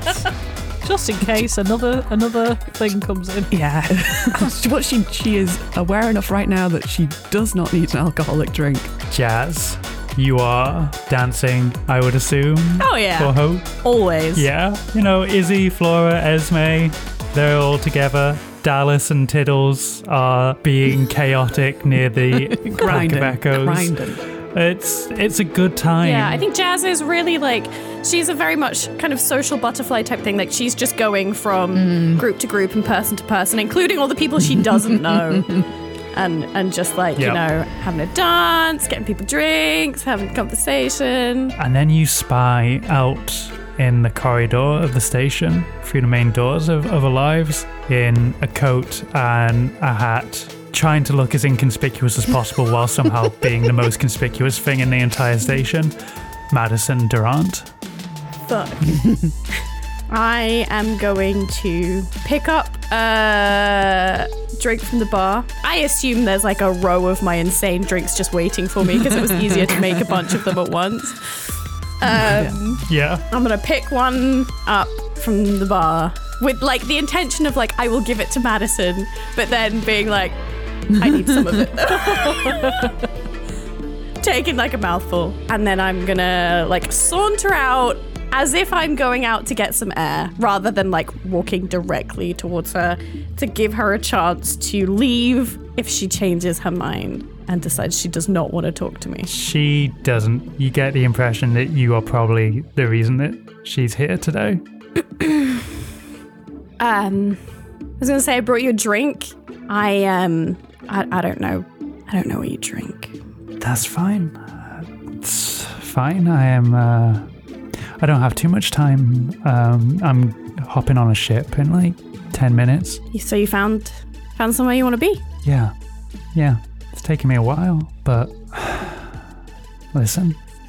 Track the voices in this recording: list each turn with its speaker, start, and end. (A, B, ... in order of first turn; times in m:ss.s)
0:00.8-0:03.6 A
0:03.5-0:08.9 B
0:09.1-0:13.7 C
0:12.8-0:14.4 D
0:14.3-0:26.4 C
0:22.6-0:24.2 B
0:26.0-0:41.5 D
0:31.7-0:32.2 B
0:37.2-0:37.4 C
0:41.6-0:55.9 C
0:56.5-0:57.7 C
0:58.5-0:59.0 D
0:58.9-0:59.3 B
1:00.1-1:11.4 D
1:09.2-1:09.5 B
1:12.0-1:23.0 D
1:12.1-1:13.2 C
1:12.1-1:12.8 B
1:21.1-1:21.6 B
1:24.2-1:39.3 D
1:39.2-1:44.6 C
1:45.2-1:45.6 D
1:46.8-1:47.4 D
1:48.0-1:53.1 D
1:53.6-1:57.3 C
1:58.0-2:03.0 C
2:03.1-2:05.2 D
2:05.4-2:05.7 C
2:06.3-2:09.2 C
2:09.9-2:10.4 C